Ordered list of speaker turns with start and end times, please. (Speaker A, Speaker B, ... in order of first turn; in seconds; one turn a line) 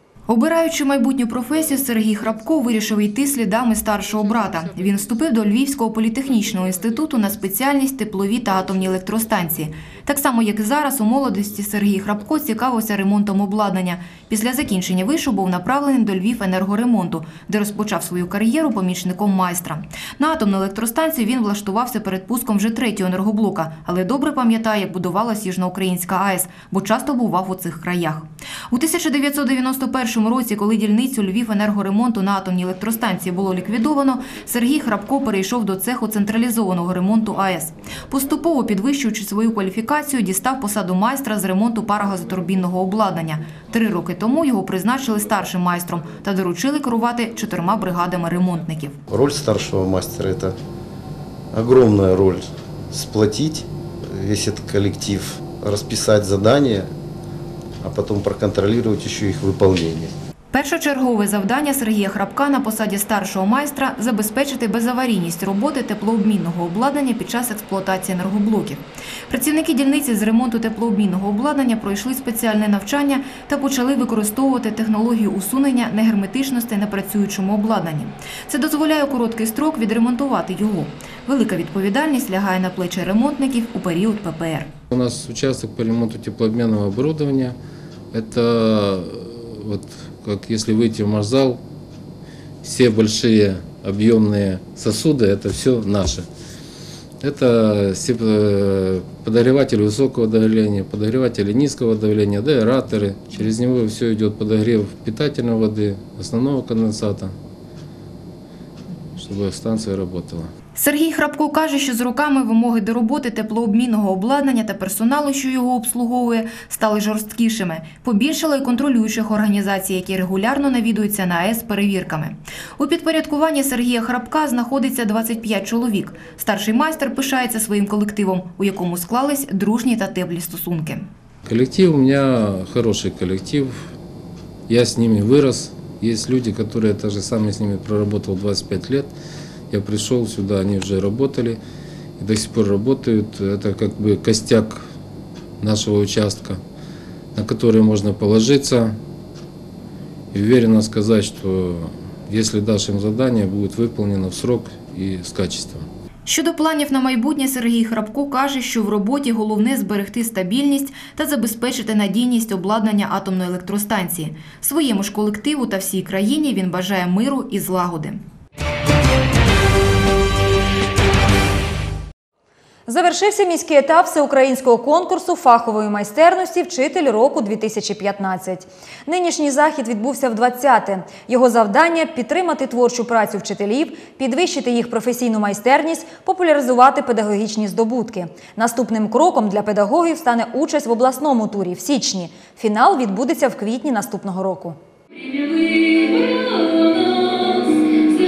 Speaker A: 0.3-49.0
Speaker B: 49.1-50.6
Speaker B: 51.5-56.9
Speaker B: 57.8-60.1
Speaker A: 60.5-84.7
Speaker C: 84.9-87.6
Speaker C: 88.1-91.6
Speaker C: 92.6-96.3
Speaker C: 97.2-107.3
Speaker C: 109.2-110.5
Speaker A: 110.8-131.1
Speaker C: 131.5-133.9
Speaker C: 134.7-139.1
Speaker C: 139.7-141.6
Speaker C: 142.2-144.9
Speaker C: 145.6-146.6
Speaker C: 147.3-149.0
Speaker C: 150.3-155.9
Speaker A: 156.3-168.2
Speaker D: 172.9-194.8